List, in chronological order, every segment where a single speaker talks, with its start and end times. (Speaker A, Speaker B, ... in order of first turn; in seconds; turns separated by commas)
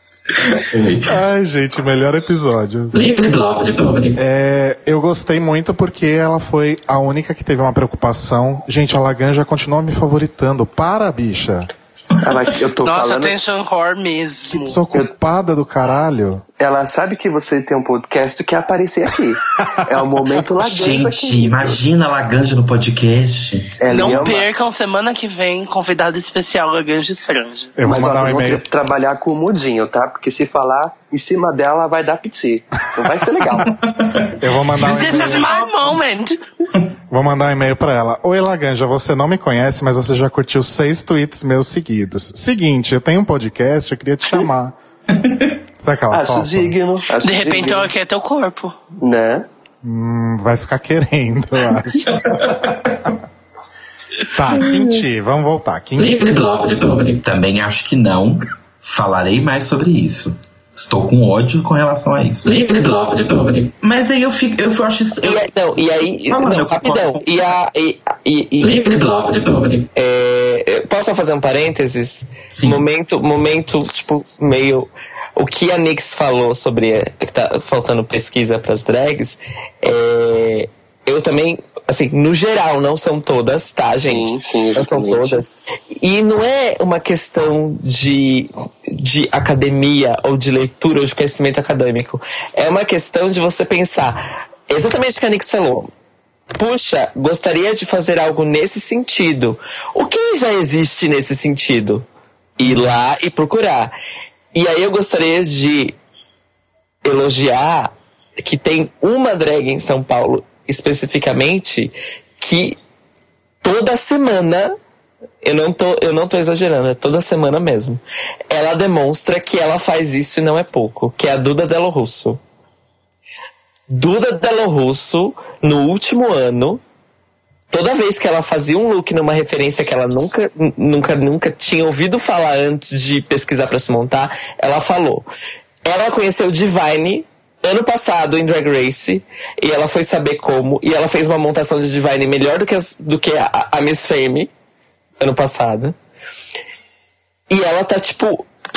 Speaker A: 0.5-1.1, Speaker B: 1.1-3.4, Speaker B: 4.1-11.7, Speaker C: 12.2-13.3, Speaker D: 12.8-14.8, Speaker B: 14.5-16.4, Speaker C: 16.6-21.8, Speaker A: 20.6-24.4, Speaker C: 23.8-24.5, Speaker D: 23.9-27.7, Speaker B: 27.8-28.6, Speaker C: 27.9-33.8, Speaker A: 33.9-34.3, Speaker B: 34.4-35.8, Speaker D: 34.8-36.3, Speaker B: 37.1-44.8, Speaker A: 45.1-45.6, Speaker B: 45.8-46.7, Speaker C: 46.1-47.9, Speaker D: 47.2-48.8, Speaker C: 49.0-49.5, Speaker B: 49.8-52.5, Speaker A: 52.1-53.1, Speaker B: 54.3-56.7, Speaker A: 57.2-62.6, Speaker E: 62.5-63.7, Speaker A: 63.8-65.5, Speaker E: 65.2-95.9, Speaker A: 66.3-67.3, Speaker A: 72.5-72.9, Speaker C: 84.0-85.4, Speaker E: 96.5-104.0, Speaker A: 102.6-103.0, Speaker E: 104.5-106.0, Speaker E: 107.0-112.8, Speaker E: 113.6-114.8, Speaker E: 115.4-122.4, Speaker E: 123.9-126.8, Speaker E: 127.7-135.3, Speaker E: 135.8-144.5, Speaker E: 145.2-146.0, Speaker E: 147.5-148.5